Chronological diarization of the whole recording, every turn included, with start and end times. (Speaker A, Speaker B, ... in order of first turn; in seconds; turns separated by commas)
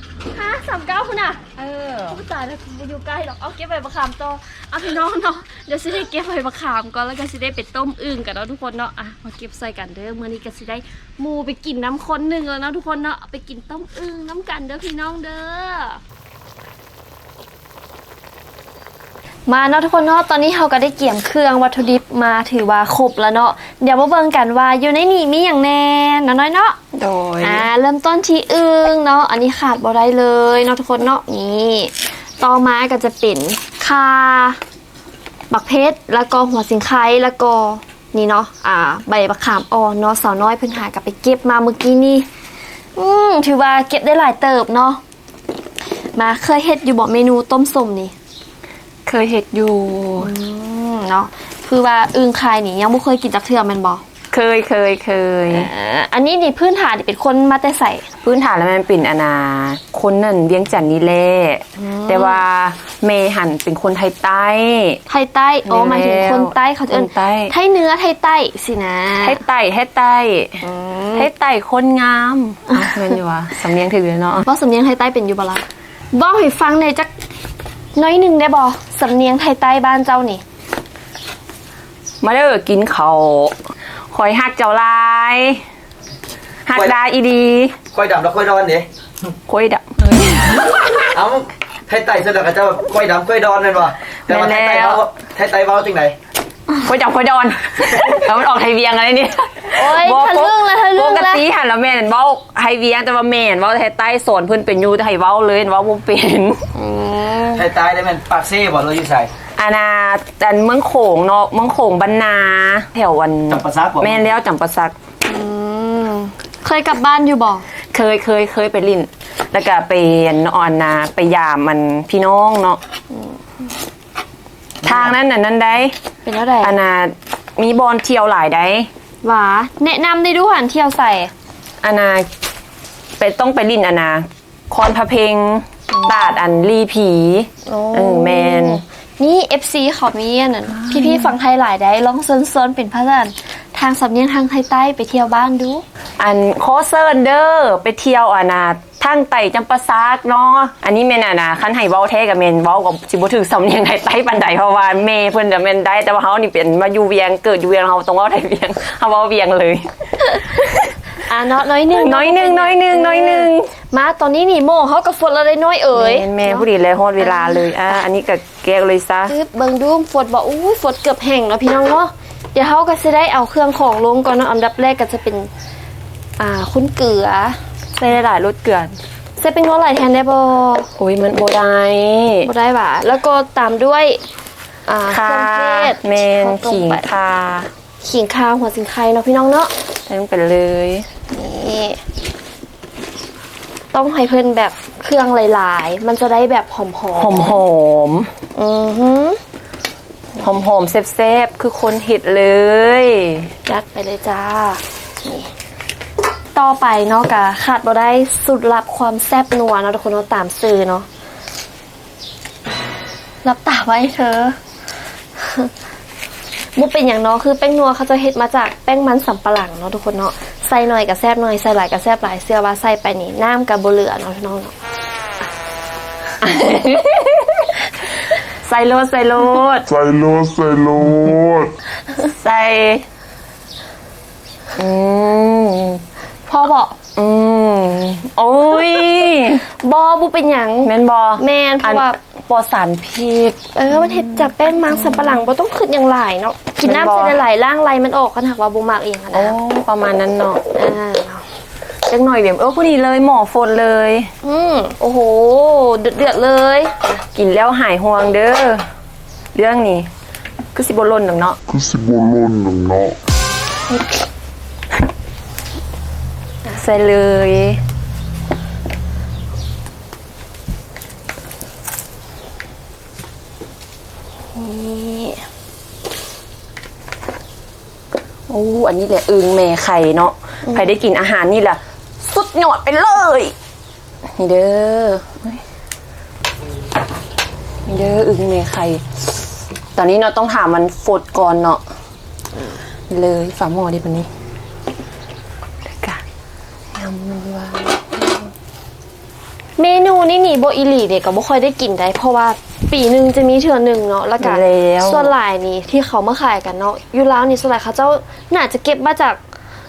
Speaker A: 0.3-1.5, Speaker B: 1.6-2.2, Speaker A: 2.1-16.0, Speaker A: 19.5-26.8, Speaker B: 26.9-27.7, Speaker A: 27.4-34.6, Speaker A: 35.5-42.3, Speaker A: 43.0-45.0, Speaker A: 46.1-48.1, Speaker B: 49.0-50.3, Speaker A: 50.2-54.0, Speaker B: 54.3-55.7, Speaker A: 55.5-58.0, Speaker B: 58.2-65.0, Speaker A: 61.8-62.4, Speaker A: 65.1-69.4, Speaker B: 65.7-67.5, Speaker B: 69.2-70.6, Speaker A: 70.6-71.3, Speaker B: 71.1-74.4, Speaker A: 72.7-73.2, Speaker A: 74.4-77.1, Speaker A: 77.9-80.4, Speaker B: 82.2-83.5, Speaker B: 84.1-85.6, Speaker B: 86.7-87.8, Speaker C: 87.9-88.9, Speaker B: 89.5-91.1, Speaker C: 91.1-96.2, Speaker B: 94.3-95.0, Speaker B: 96.7-106.6, Speaker A: 99.7-101.4, Speaker A: 106.7-107.7, Speaker C: 107.5-109.3, Speaker B: 109.5-114.9, Speaker C: 113.5-114.2, Speaker A: 115.2-117.6, Speaker B: 117.9-122.8, Speaker A: 123.1-123.4, Speaker B: 124.8-125.9, Speaker A: 126.2-126.8, Speaker B: 126.6-128.9, Speaker A: 129.2-131.3, Speaker B: 131.8-132.3, Speaker B: 133.2-138.8, Speaker A: 137.7-145.8, Speaker B: 140.7-141.3, Speaker B: 146.2-160.9, Speaker A: 161.2-167.9, Speaker B: 161.9-163.7, Speaker B: 165.9-169.3, Speaker A: 169.3-175.5, Speaker A: 176.4-177.6, Speaker B: 178.0-179.0, Speaker A: 179.4-180.9, Speaker B: 181.0-182.5, Speaker A: 182.4-184.2, Speaker A: 184.9-187.1, Speaker B: 185.1-187.7, Speaker A: 188.0-189.7, Speaker B: 190.1-191.1, Speaker A: 191.3-192.0, Speaker A: 193.9-197.6, Speaker B: 197.1-198.3, Speaker A: 198.5-199.4, Speaker B: 200.4-203.5, Speaker A: 203.7-205.5, Speaker A: 206.6-211.1, Speaker A: 213.4-214.6, Speaker A: 215.3-215.7, Speaker A: 216.8-224.7, Speaker B: 226.4-227.8, Speaker B: 228.6-229.9, Speaker D: 230.1-231.6, Speaker B: 232.1-233.0, Speaker B: 234.8-236.0, Speaker A: 236.5-237.0, Speaker B: 237.2-239.7, Speaker A: 239.6-242.2, Speaker B: 240.8-244.5, Speaker A: 243.7-249.6, Speaker B: 246.8-247.4, Speaker B: 249.3-250.6, Speaker A: 250.7-251.4, Speaker B: 252.1-254.3, Speaker A: 254.4-257.1, Speaker B: 257.3-258.8, Speaker B: 259.5-260.1, Speaker B: 260.7-261.6, Speaker D: 261.8-263.1, Speaker B: 266.7-267.8, Speaker A: 274.5-275.4, Speaker B: 278.5-283.5, Speaker B: 284.4-285.6, Speaker B: 287.9-289.2, Speaker B: 289.9-291.8, Speaker B: 293.1-294.3, Speaker B: 295.9-296.2, Speaker B: 296.9-298.5, Speaker A: 299.8-309.4, Speaker B: 304.4-305.3